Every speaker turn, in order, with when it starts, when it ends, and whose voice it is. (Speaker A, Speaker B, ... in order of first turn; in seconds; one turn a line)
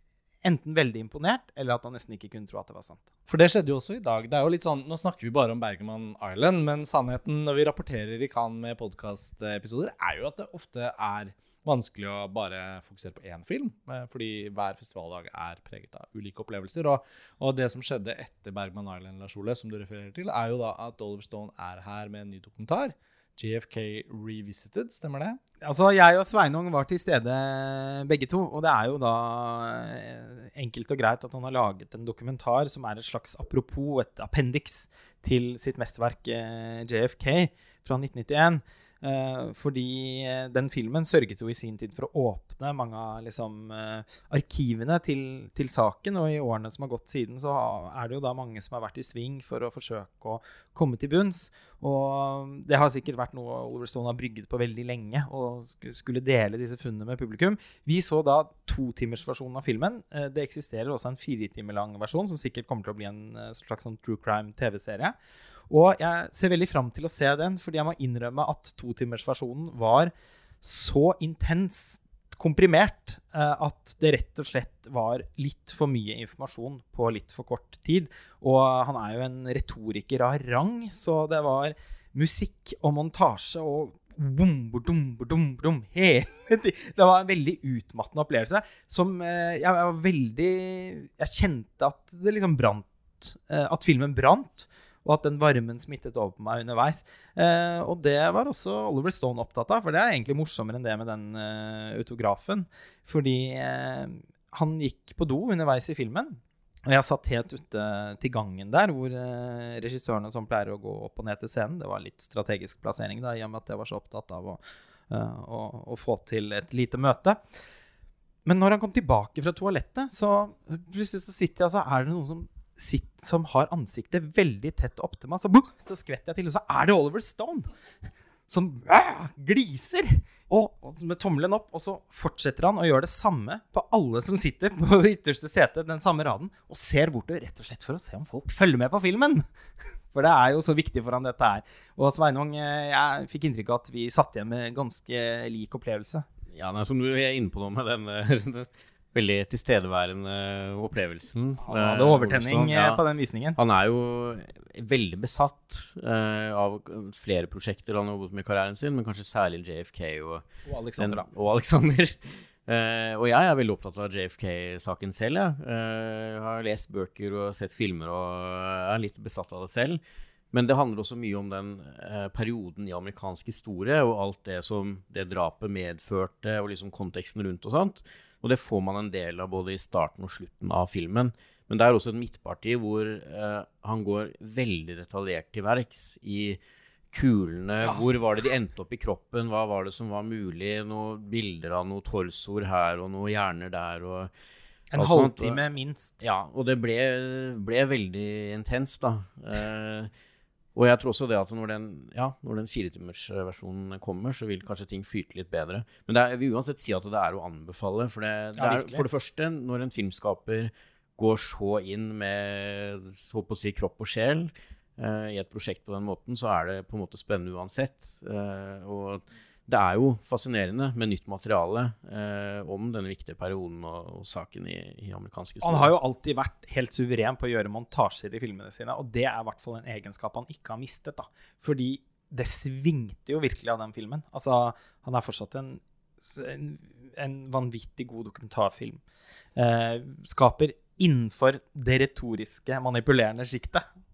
Speaker A: 0.4-3.0
Speaker B: 3.3-25.4
Speaker A: 25.6-65.1
Speaker A: 65.7-70.1
Speaker A: 70.6-117.4
Speaker A: 118.4-127.7
Speaker A: 128.5-139.4
Speaker A: 140.1-146.2
Speaker C: 146.5-153.0
Speaker A: 151.6-153.6
Speaker C: 153.6-160.5
Speaker A: 160.7-161.3
Speaker C: 161.0-170.0
Speaker C: 170.5-186.6
Speaker C: 187.1-194.3
Speaker A: 194.9-196.2
Speaker C: 195.0-195.6
Speaker C: 196.2-200.1
Speaker C: 200.7-225.9
Speaker A: 208.6-209.0
Speaker A: 225.6-239.0
Speaker A: 239.6-243.8